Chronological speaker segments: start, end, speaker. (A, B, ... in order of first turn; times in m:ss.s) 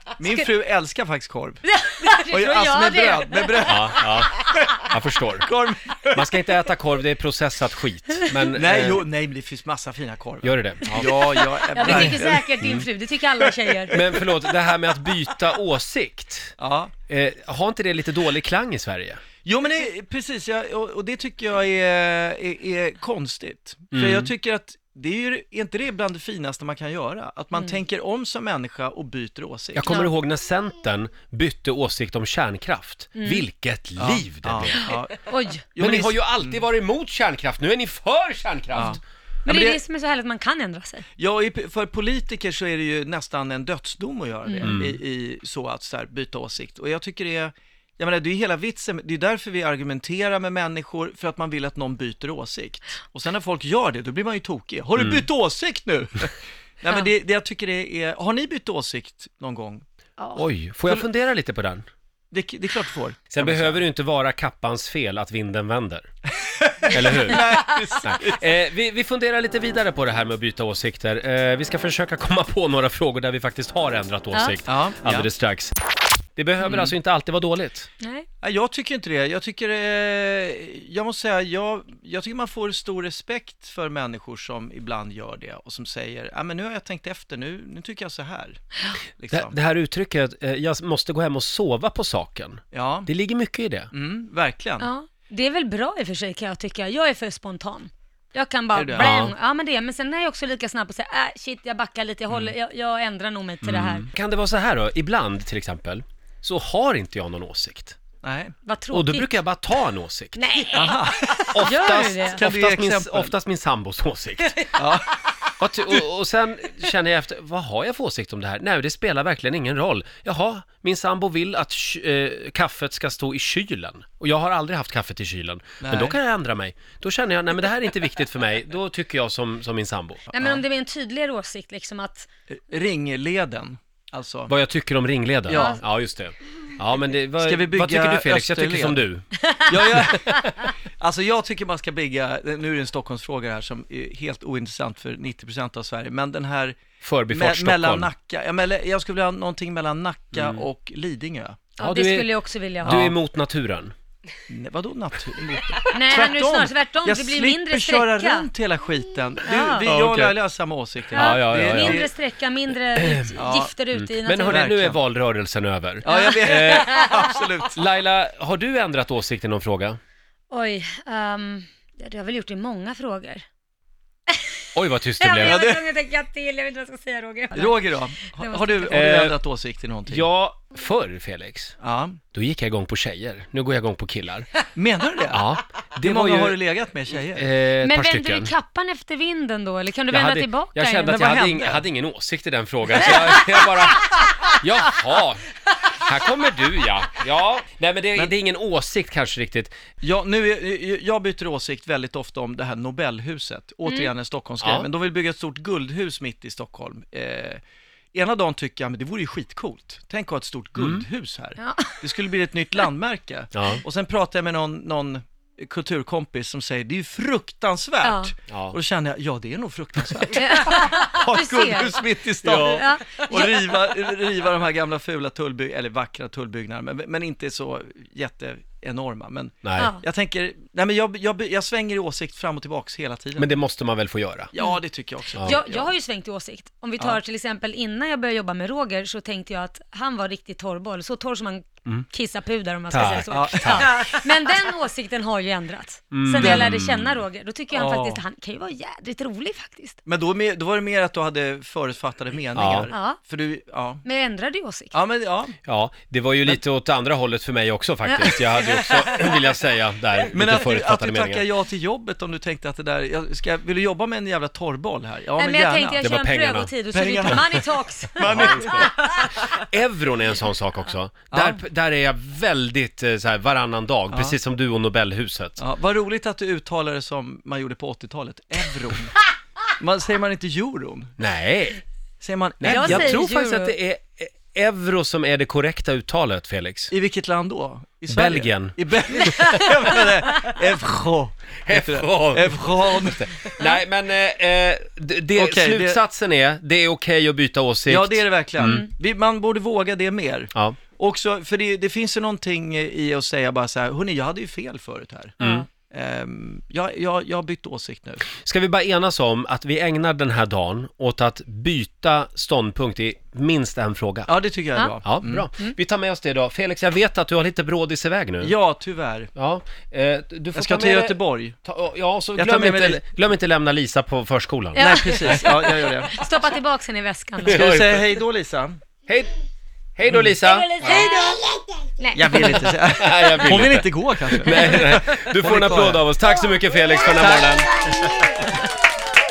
0:00.2-0:00.5 A
0:00.2-0:01.6 B
0:01.6-0:04.3 A
0:02.3-0:04.5 B
0:03.6-0:05.5 C
0:05.4-0:06.3 B
0:06.1-0:09.0 C
0:08.5-0:12.5 B
0:10.4-0:11.1 C
0:10.9-0:14.0 A
0:11.8-0:12.8 C
0:13.4-0:14.2 B
0:13.9-0:16.5 C
0:16.6-0:16.9 B
0:17.1-0:19.2 C
0:19.4-0:29.9 B
0:23.9-0:24.3 C
0:27.5-0:27.8 A
0:29.7-0:34.9 C
0:29.8-0:30.1 A
0:33.2-0:33.4 A
0:34.0-0:36.6 B
0:34.7-0:35.6 A
0:35.8-0:39.0 C
0:38.7-0:39.8 B
0:38.8-0:41.0 A
0:41.2-0:59.8 B
0:44.4-0:44.8 A
0:44.6-0:45.0 C
0:55.0-0:55.2 C
1:00.2-1:00.4 A
1:00.3-1:01.8 C
1:02.3-1:03.8 B
1:03.3-1:06.1 C
1:06.5-1:08.4 B
1:06.9-1:07.5 C
1:07.0-1:08.0 A
1:08.0-1:15.7 C
1:14.3-1:14.6 A
1:14.6-1:15.3 B
1:16.4-1:17.9 C
1:16.6-1:16.9 B
1:18.0-1:18.2 A
1:18.4-1:28.6 B
1:29.2-1:29.5 B
1:29.3-1:33.9 C
1:32.7-1:33.1 B
1:33.9-1:34.9 B
1:34.8-1:44.1 A
1:38.7-1:39.1 B
1:38.9-1:39.3 C
1:43.6-1:48.0 C
1:48.2-1:48.6 B
1:48.6-1:49.3 A
1:48.9-1:50.4 C
1:50.3-1:52.4 A
1:50.7-1:51.7 B
1:51.5-1:54.6 C
1:52.3-1:53.3 B
1:54.8-1:55.2 B
1:55.6-2:10.3 C
2:05.8-2:06.2 B
2:10.3-2:12.3 A
2:12.6-2:14.5 B
2:14.5-2:19.3 C
2:15.5-2:15.7 B
2:15.5-2:15.8 A
2:17.4-2:19.0 B
2:19.6-2:20.6 A
2:19.7-2:26.8 B
2:19.8-2:20.1 C
2:27.0-2:28.1 C
2:27.3-2:31.7 B
2:30.3-2:30.6 C
2:31.8-2:32.3 C
2:31.8-2:33.0 A
2:32.8-2:33.9 C
2:32.8-2:33.1 B
2:34.5-2:42.1 B
2:35.9-2:38.5 A
2:39.4-2:39.9 A
2:39.8-2:40.3 C
2:41.1-2:42.1 C
2:41.1-2:44.7 A
2:43.0-2:43.4 C
2:43.4-2:43.7 B
2:43.9-2:47.1 C
2:44.5-2:45.0 B
2:46.0-2:47.8 B
2:46.0-2:47.4 A
2:47.7-2:50.0 C
2:50.5-2:53.4 A
2:54.7-2:55.6 C
2:55.2-2:59.1 A
2:55.4-2:55.8 B
2:57.5-3:00.2 B
2:58.9-2:59.4 C
3:00.0-3:01.7 C
3:01.8-3:02.2 B
3:02.3-3:04.5 C
3:04.7-3:05.5 B
3:05.3-3:06.6 C
3:06.0-3:07.5 B
3:07.3-3:08.5 C
3:07.8-3:11.3 A
3:10.1-3:15.4 C
3:11.0-3:11.8 B
3:13.0-3:13.7 A
3:16.0-3:19.8 C
3:20.0-3:27.6 B
3:23.8-3:24.1 A
3:24.6-3:24.9 C
3:28.1-3:53.5 B
3:30.8-3:31.0 C
3:31.6-3:32.2 A
3:33.5-3:33.8 C
3:38.0-3:38.3 A
3:38.5-3:38.7 C
3:40.3-3:43.8 A
3:42.4-3:42.8 C
3:49.6-3:49.9 C
3:49.8-3:50.0 A
3:53.4-3:54.5 C
3:54.5-3:55.9 B
3:54.6-3:54.8 A
3:55.3-4:10.0 A
4:02.9-4:03.9 C
4:03.3-4:04.2 B
4:06.1-4:07.2 C
4:06.4-4:06.7 B
4:07.7-4:08.2 B
4:10.0-4:14.0 B
4:12.5-4:12.9 C
4:12.9-4:13.2 A
4:14.0-4:15.0 A
4:14.9-4:15.6 B
4:15.6-4:21.4 C
4:18.0-4:18.4 A
4:20.3-4:26.0 B
4:25.3-4:29.4 A
4:26.0-4:26.7 C
4:26.9-4:27.6 B
4:27.2-4:27.6 C
4:28.1-4:29.2 B
4:28.2-4:35.6 C
4:31.3-4:31.6 B
4:34.1-4:34.4 B
4:35.6-4:39.2 B
4:39.8-4:41.2 B
4:41.2-4:41.8 C
4:42.2-4:43.2 B
4:42.6-4:46.9 C
4:42.6-4:43.7 A
4:46.9-4:53.3 B
4:48.1-4:49.7 C
4:49.3-4:50.5 A
4:51.6-4:58.8 C
4:55.3-4:56.0 B
4:57.9-5:08.2 B
4:58.6-4:58.9 A
5:00.5-5:00.8 C
5:05.4-5:05.7 A
5:05.4-5:05.6 C
5:08.4-5:14.3 C
5:14.2-5:15.5 B
5:14.7-5:15.0 A
5:15.0-5:18.5 C
5:18.4-5:19.3 B
5:19.4-5:25.4 C
5:20.5-5:21.6 B
5:22.4-5:23.0 B
5:24.7-5:27.7 A
5:24.8-5:26.2 B
5:27.5-5:28.1 C
5:27.5-5:28.8 B
5:29.1-5:29.3 C
5:30.0-5:31.1 C
5:30.4-5:32.9 A
5:32.1-5:36.0 B
5:32.9-5:37.8 C
5:37.2-5:38.1 B